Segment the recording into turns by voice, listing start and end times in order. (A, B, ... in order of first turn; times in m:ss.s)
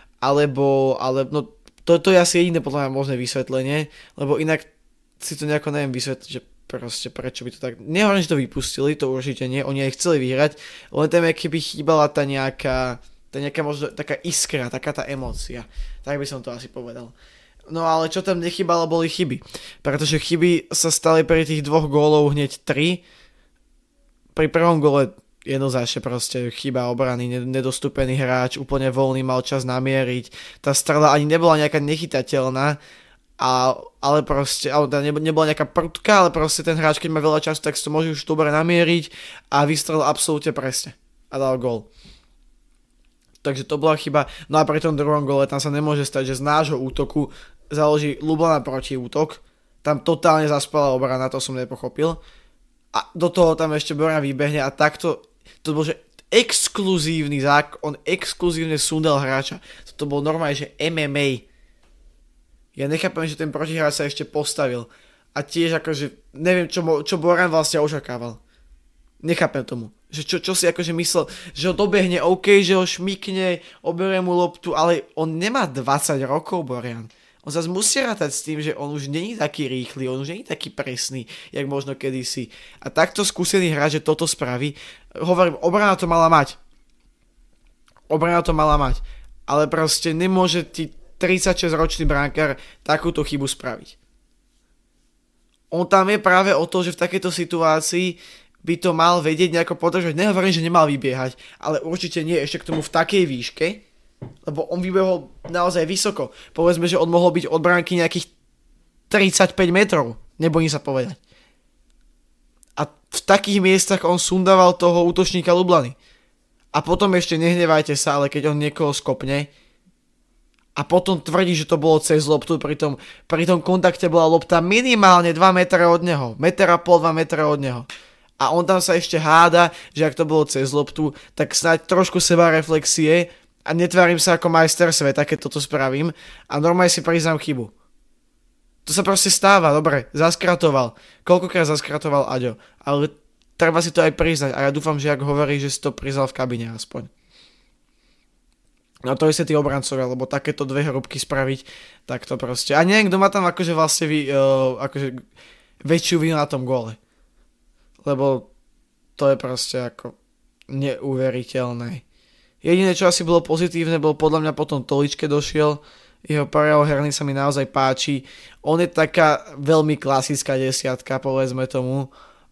0:00.2-0:17.1 A
0:17.7-0:23.0 A
0:24.4-0:32.8 A
0:33.4-0:41.9 A
0:43.4-0:52.2 A
0:52.9-1:01.5 A
1:02.8-1:08.4 A
1:09.2-1:26.6 A
1:28.1-1:34.0 A
1:35.7-1:43.8 A
1:44.4-1:48.3 A
1:49.1-1:51.2 A
1:52.8-1:56.0 A
1:56.7-1:59.5 A
2:00.8-2:07.9 A
2:08.4-2:17.7 A
2:18.9-2:27.1 A
2:29.1-2:35.2 A
2:35.8-2:37.0 A
2:38.0-2:38.5 A
2:39.2-2:40.2 A
2:40.7-2:42.0 A
2:42.6-2:52.1 A